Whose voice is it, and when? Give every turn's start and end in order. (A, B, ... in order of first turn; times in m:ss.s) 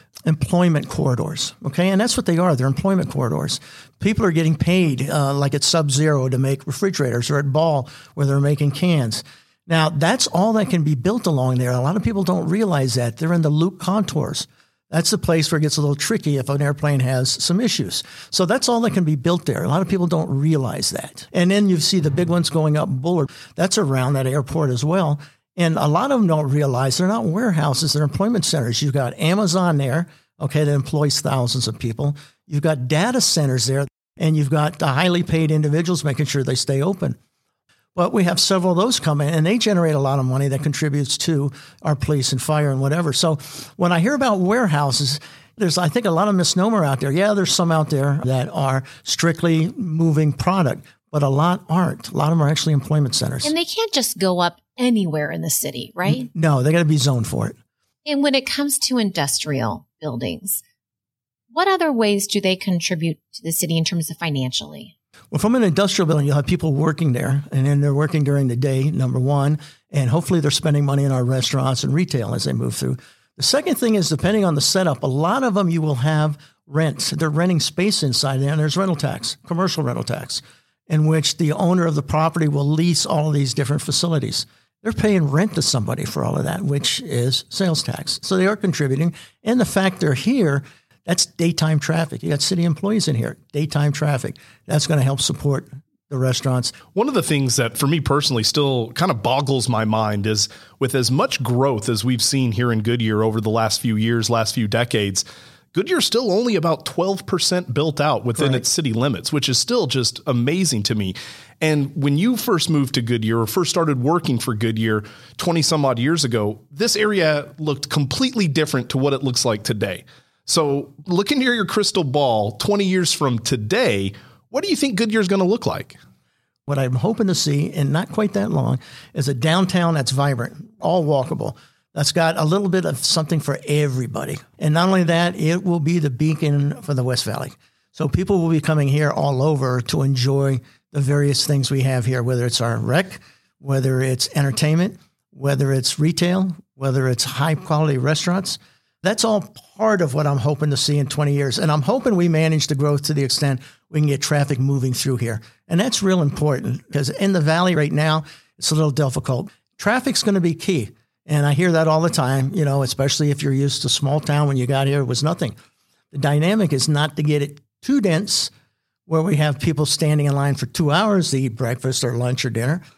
0:00.3-0:37.2 A
0:38.0-0:53.5 A
0:53.4-0:56.3 B
0:56.0-0:57.6 A
0:58.1-1:00.6 B
1:01.5-1:04.9 B
1:05.3-1:36.8 A
1:37.0-2:06.0 C
1:48.4-1:48.6 A
2:06.7-2:45.6 A
2:46.1-2:48.5 A
2:49.1-2:52.8 A